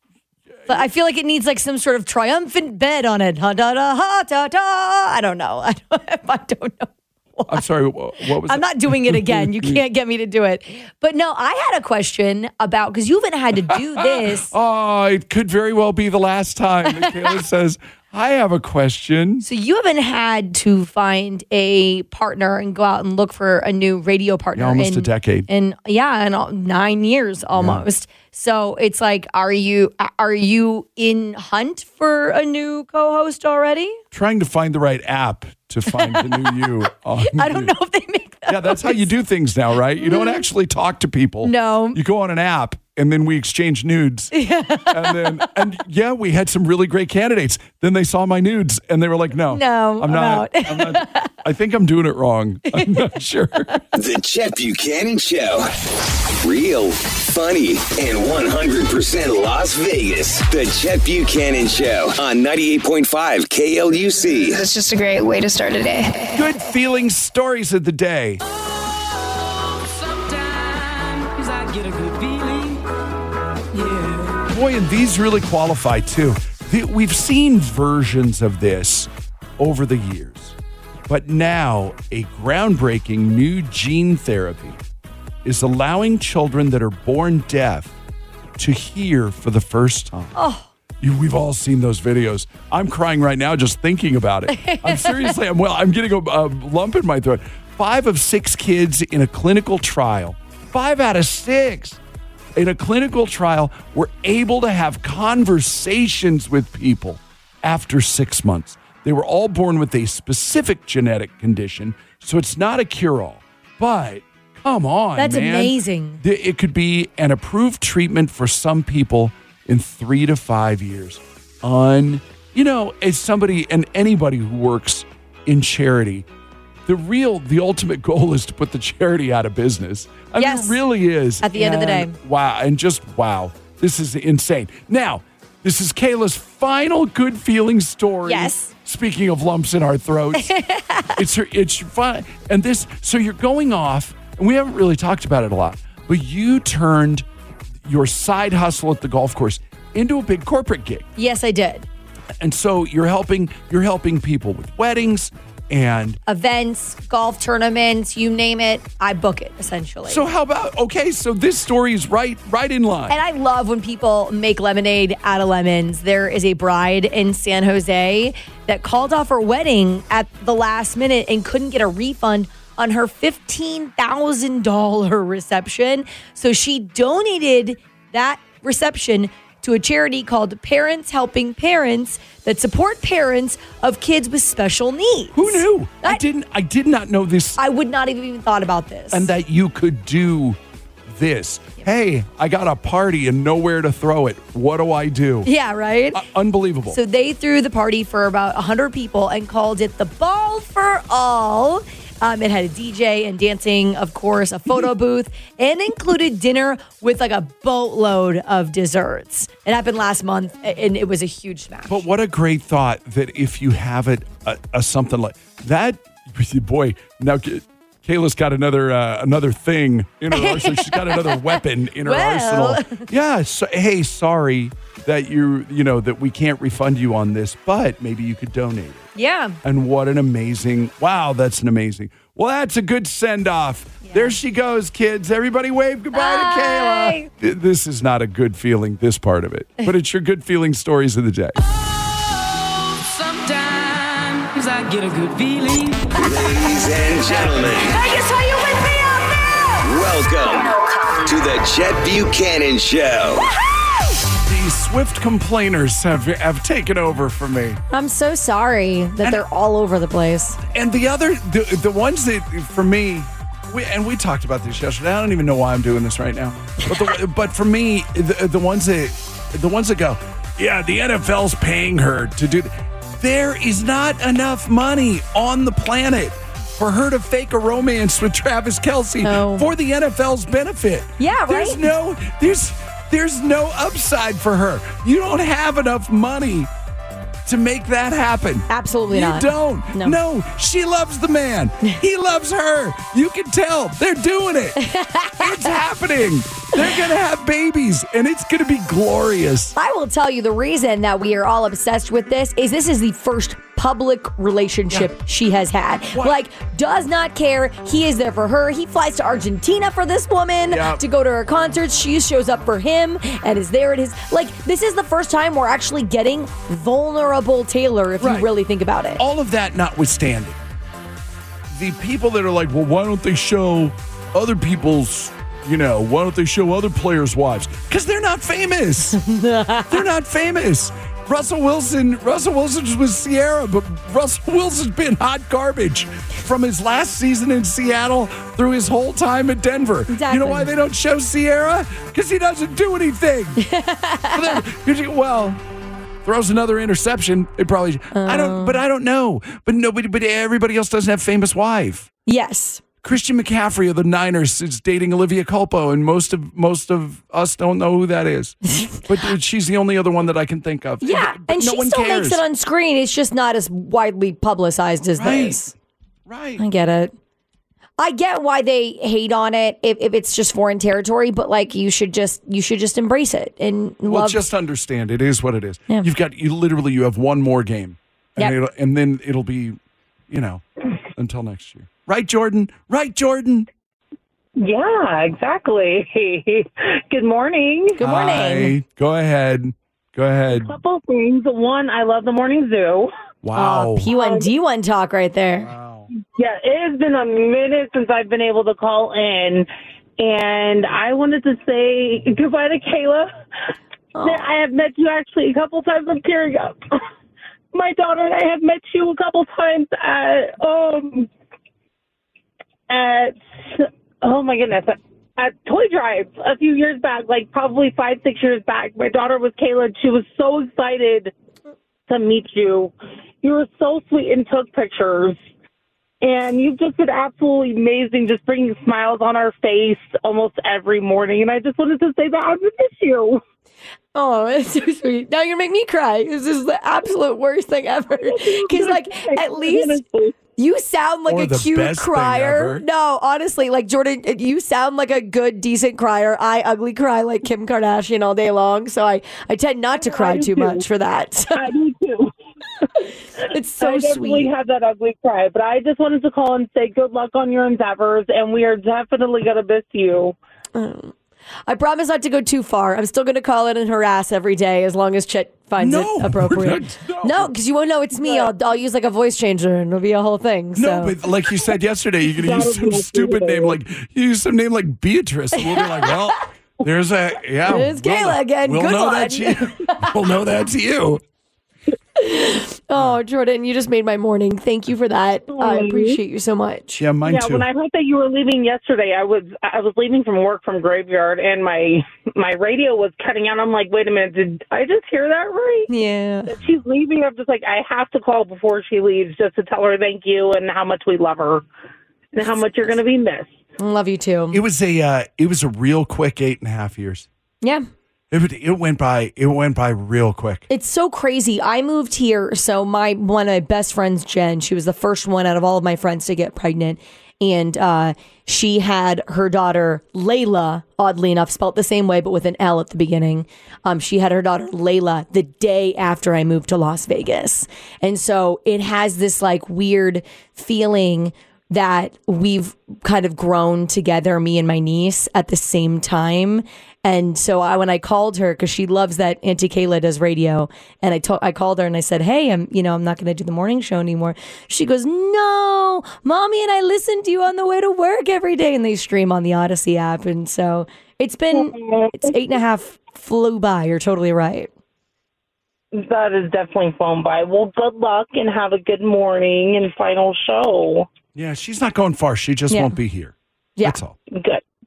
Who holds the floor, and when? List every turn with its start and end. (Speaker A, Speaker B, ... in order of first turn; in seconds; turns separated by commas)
Speaker A: 0.7-7.6, Speaker B: 7.5-9.8, Speaker A: 8.4-14.5, Speaker B: 14.0-19.4, Speaker A: 19.4-34.0, Speaker B: 24.6-25.5, Speaker B: 27.6-27.8, Speaker B: 34.1-37.7, Speaker A: 35.9-36.7, Speaker A: 37.3-39.1, Speaker B: 38.5-44.3, Speaker A: 40.0-40.4, Speaker A: 41.4-42.0, Speaker A: 44.3-45.2, Speaker B: 44.9-53.8, Speaker A: 49.5-51.3, Speaker A: 52.7-53.0, Speaker C: 53.9-55.7, Speaker C: 56.4-64.6, Speaker D: 64.5-66.4, Speaker B: 66.3-68.4, Speaker E: 69.2-72.9, Speaker E: 73.7-74.5, Speaker B: 74.5-80.5, Speaker B: 81.1-84.8, Speaker B: 85.4-88.0, Speaker B: 88.6-90.3, Speaker A: 90.3-90.7, Speaker B: 91.0-102.0, Speaker A: 94.5-95.4, Speaker B: 102.5-126.2, Speaker A: 115.2-116.2, Speaker B: 126.8-140.5, Speaker A: 130.3-130.8, Speaker A: 131.4-132.1, Speaker A: 138.2-138.7, Speaker A: 140.3-141.2, Speaker B: 141.2-147.2, Speaker B: 147.8-151.1, Speaker A: 151.2-151.9, Speaker B: 152.4-156.2, Speaker A: 156.2-160.2, Speaker B: 160.1-163.2, Speaker A: 163.1-186.2, Speaker B: 185.3-187.6, Speaker A: 187.6-189.3, Speaker B: 189.1-190.6, Speaker B: 191.1-195.5, Speaker A: 195.4-196.2, Speaker B: 196.1-197.0, Speaker A: 196.9-212.0, Speaker B: 211.9-229.1, Speaker A: 220.3-223.1, Speaker A: 229.1-229.6, Speaker B: 229.6-241.6, Speaker A: 234.0-234.3, Speaker A: 236.1-237.3, Speaker E: 243.0-246.1, Speaker C: 246.2-248.0, Speaker C: 249.8-253.4, Speaker B: 254.4-257.8, Speaker A: 257.9-260.6, Speaker B: 260.7-286.7, Speaker A: 279.2-279.7, Speaker A: 281.2-281.8, Speaker B: 287.4-294.8, Speaker A: 288.7-290.2, Speaker A: 294.8-295.7, Speaker B: 295.4-299.7, Speaker A: 299.7-319.2, Speaker B: 310.7-311.0, Speaker B: 318.2-318.5, Speaker B: 319.2-320.6, Speaker B: 321.7-329.2, Speaker A: 329.1-330.0, Speaker B: 329.9-343.6, Speaker A: 340.1-340.7, Speaker A: 343.6-344.6, Speaker B: 344.3-345.6, Speaker B: 346.2-352.1, Speaker A: 348.1-348.8, Speaker A: 352.2-352.8, Speaker B: 353.0-362.4, Speaker A: 358.7-359.0, Speaker A: 361.0-365.7, Speaker B: 365.2-365.6, Speaker B: 366.3-366.6, Speaker A: 366.6-367.1, Speaker A: 368.0-374.4, Speaker B: 374.1-379.8, Speaker B: 380.3-380.6, Speaker B: 381.1-383.7, Speaker F: 384.6-388.0, Speaker A: 388.0-388.7, Speaker B: 388.0-390.7, Speaker F: 390.5-393.1, Speaker B: 393.4-394.1, Speaker A: 393.6-395.7, Speaker F: 394.1-394.5, Speaker B: 395.6-396.1, Speaker F: 396.3-399.7, Speaker F: 400.2-403.3, Speaker A: 404.1-404.5, Speaker F: 404.2-406.8, Speaker F: 407.7-411.3, Speaker F: 412.9-421.3, Speaker F: 422.1-425.4, Speaker F: 426.2-433.4, Speaker A: 434.1-440.0, Speaker F: 438.2-440.3, Speaker A: 440.6-451.6, Speaker B: 441.3-442.8, Speaker F: 450.0-450.8, Speaker F: 451.5-452.3, Speaker A: 453.5-454.5, Speaker F: 453.8-460.4, Speaker A: 460.7-461.1, Speaker A: 461.7-471.1, Speaker B: 465.8-467.5, Speaker F: 468.2-468.5, Speaker B: 470.8-481.2, Speaker F: 472.3-473.8, Speaker A: 475.8-476.1, Speaker A: 477.7-480.1, Speaker A: 482.2-487.0, Speaker F: 485.5-486.2, Speaker B: 487.0-487.7, Speaker F: 487.2-495.9, Speaker A: 495.9-496.5, Speaker F: 496.5-501.6, Speaker F: 502.3-503.5, Speaker A: 503.8-504.6, Speaker B: 504.5-507.3, Speaker B: 508.3-510.6, Speaker A: 510.7-554.7, Speaker F: 551.5-552.4, Speaker F: 555.9-561.1, Speaker B: 561.3-564.1, Speaker A: 562.7-562.9, Speaker F: 564.3-564.6